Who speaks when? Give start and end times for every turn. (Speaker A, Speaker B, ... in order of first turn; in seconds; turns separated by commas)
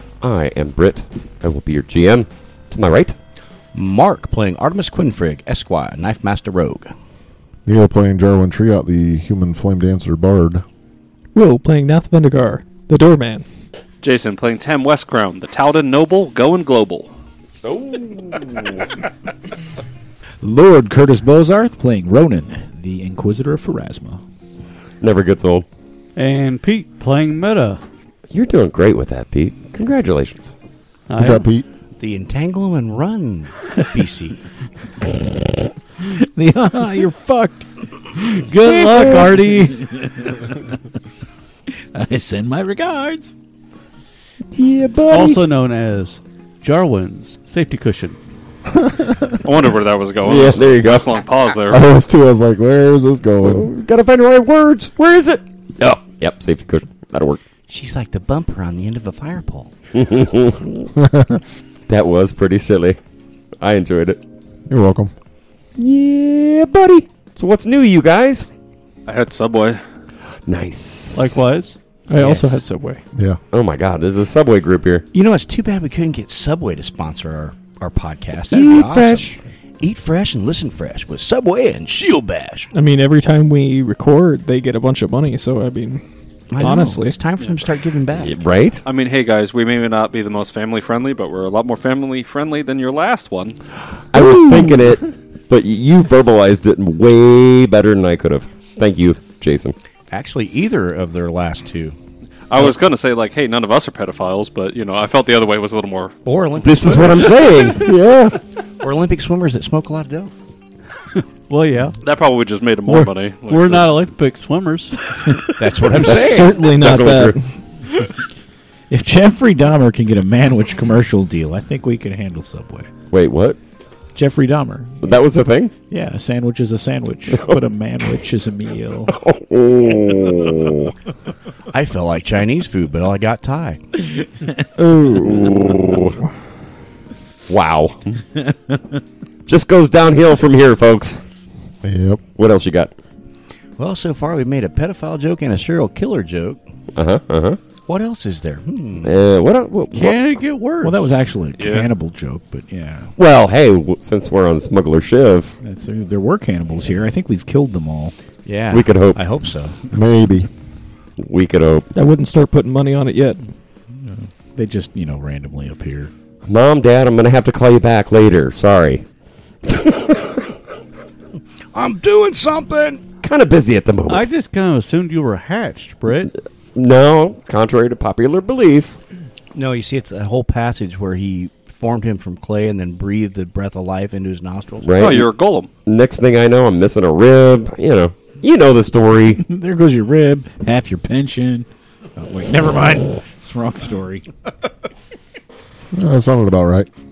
Speaker A: 0.2-3.2, Speaker B: 3.7-6.9, Speaker C: 7.7-10.7, Speaker D: 11.3-13.4, Speaker E: 14.0-17.1, Speaker A: 17.6-18.9, Speaker F: 20.4-24.2, Speaker A: 25.0-25.7, Speaker G: 26.2-27.8, Speaker A: 28.3-30.5, Speaker G: 31.1-31.5, Speaker C: 31.2-31.7, Speaker B: 32.0-34.4, Speaker F: 36.0-37.7, Speaker G: 38.4-39.8, Speaker A: 38.7-39.3, Speaker F: 39.7-40.6, Speaker F: 41.9-43.3, Speaker A: 44.5-45.4, Speaker G: 45.1-48.2, Speaker C: 48.8-49.3, Speaker E: 49.4-51.8, Speaker A: 50.2-51.2, Speaker C: 51.7-53.7, Speaker A: 53.4-57.4, Speaker B: 57.7-59.7, Speaker A: 60.0-60.9, Speaker C: 61.0-61.4, Speaker A: 61.9-63.0, Speaker A: 63.6-64.2, Speaker C: 64.7-65.1, Speaker A: 65.8-68.5, Speaker E: 69.1-69.8, Speaker A: 70.5-71.4, Speaker G: 71.2-71.8, Speaker D: 72.1-73.0, Speaker A: 72.2-72.5, Speaker A: 73.5-75.0, Speaker B: 75.1-82.7, Speaker A: 78.5-79.4, Speaker D: 82.7-86.0, Speaker B: 86.5-88.4, Speaker D: 86.6-87.2, Speaker A: 88.2-88.8, Speaker E: 88.8-93.6, Speaker A: 94.1-99.8, Speaker B: 100.1-102.0, Speaker E: 102.5-106.7, Speaker B: 106.3-107.9, Speaker A: 106.6-108.4, Speaker B: 108.8-110.3, Speaker G: 111.2-112.0, Speaker E: 112.0-114.0, Speaker G: 112.9-115.0, Speaker B: 115.6-116.7, Speaker A: 115.9-117.4, Speaker D: 116.0-117.5, Speaker F: 118.9-122.9, Speaker A: 123.1-123.6, Speaker F: 124.2-125.0, Speaker A: 125.0-125.7, Speaker F: 125.9-129.1, Speaker A: 127.3-127.6, Speaker A: 129.1-130.9, Speaker B: 131.7-133.8, Speaker A: 134.8-136.2, Speaker A: 137.5-138.2, Speaker A: 139.5-141.2, Speaker C: 141.8-142.2, Speaker A: 142.3-142.9, Speaker B: 143.8-146.6, Speaker A: 146.9-147.6, Speaker B: 147.9-149.2, Speaker A: 149.0-150.2, Speaker G: 149.9-151.1, Speaker F: 150.8-153.1, Speaker E: 151.6-151.9, Speaker A: 153.2-155.6, Speaker F: 155.6-158.1, Speaker B: 158.4-159.8, Speaker A: 158.7-159.2, Speaker C: 159.9-160.5, Speaker A: 161.2-161.9, Speaker D: 161.9-163.4, Speaker F: 163.9-166.1, Speaker A: 166.4-169.1, Speaker A: 169.6-170.5, Speaker B: 171.7-173.0, Speaker A: 173.2-174.3, Speaker G: 174.1-176.3, Speaker A: 176.7-179.0, Speaker B: 179.5-184.9, Speaker A: 184.8-185.3, Speaker E: 185.0-185.7, Speaker A: 185.9-189.4, Speaker F: 189.4-194.2, Speaker C: 195.9-196.9